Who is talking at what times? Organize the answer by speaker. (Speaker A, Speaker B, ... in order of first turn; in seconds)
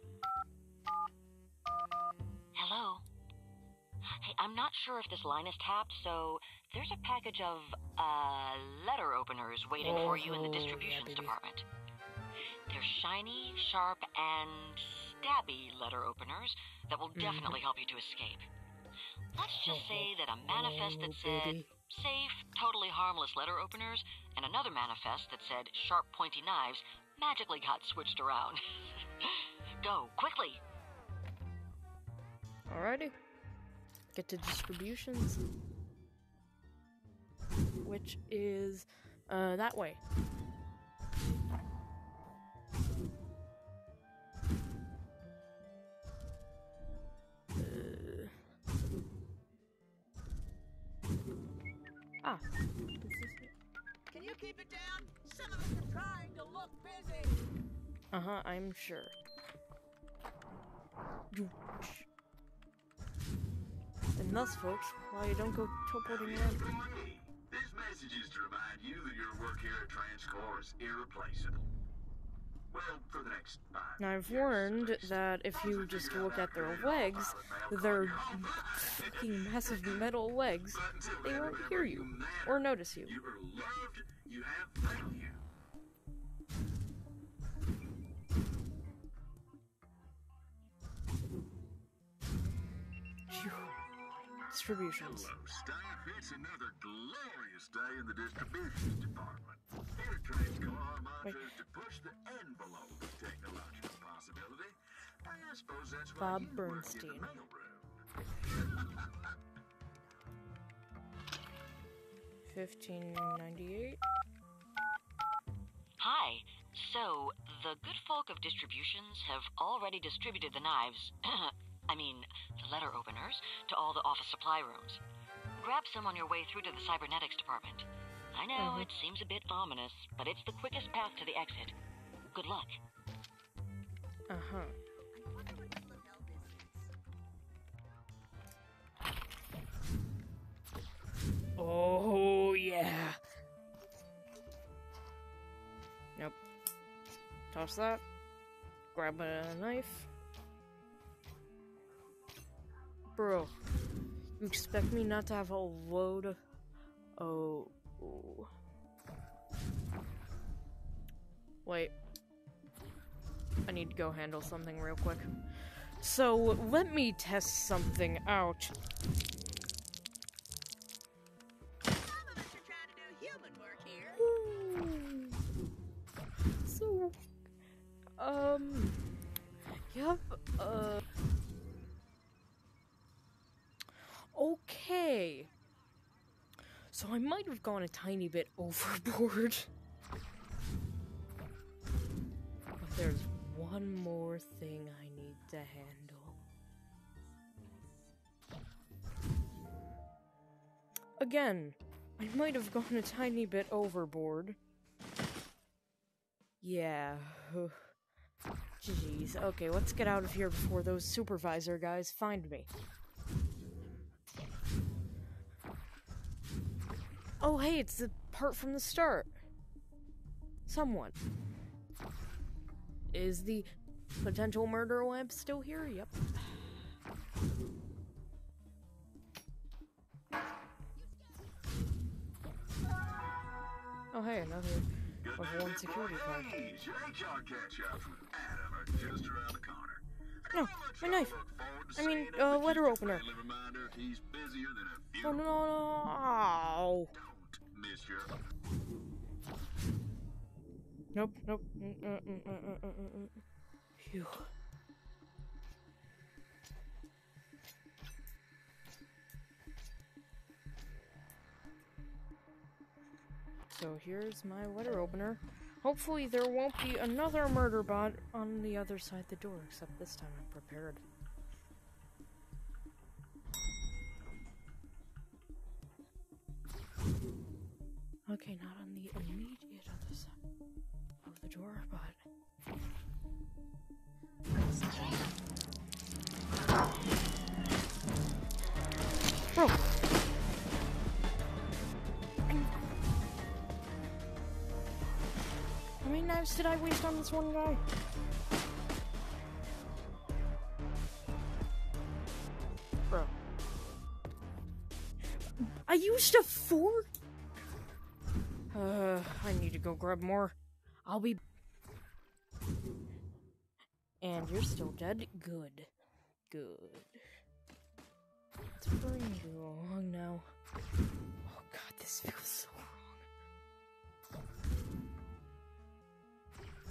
Speaker A: 2.5-3.0, 4.0-11.6, 12.7-18.4, 19.3-28.6, 29.2-30.6, 116.0-125.0, 125.6-131.8, 132.3-132.7
Speaker B: 9.8-11.3, 17.1-17.6, 19.6-21.7, 32.7-33.1, 34.1-35.4, 37.8-40.0, 47.5-48.4, 53.0-53.5, 58.1-59.1, 61.3-62.1, 64.2-66.6, 74.0-83.2, 93.3-93.8, 94.5-95.3, 106.2-107.3, 112.5-114.0, 128.6-128.9, 134.3-134.7, 141.6-143.2, 147.5-148.0, 148.9-150.1, 153.2-153.5, 154.4-156.4, 157.2-158.5, 161.6-161.9, 163.7-168.7, 174.1-175.4, 176.6-177.2, 178.2-179.0, 179.9-181.0, 184.3-185.5, 186.9-189.7, 192.8-196.4, 201.2-204.6, 206.6-207.9, 208.8-212.7, 217.4-219.3, 220.7-221.2, 223.1-223.7, 224.2-226.6, 234.1-234.8, 235.4-236.5, 240.5-241.3, 241.9-243.2, 245.2-247.1, 251.1-253.4, 254.0-254.5, 263.7-271.0, 278.3-280.3, 281.2-282.2, 284.8-285.2, 289.5-289.9, 296.0-297.8, 305.6-307.1, 308.7-310.5, 311.1-311.4, 314.2-315.9, 316.5-317.2, 318.8-320.5, 321.4-323.2
Speaker C: 54.1-57.4, 135.1-136.9, 171.9-174.2
Speaker D: 66.0-71.7, 72.7-80.1, 80.7-85.4, 95.0-109.3, 235.2-245.4, 247.1-248.4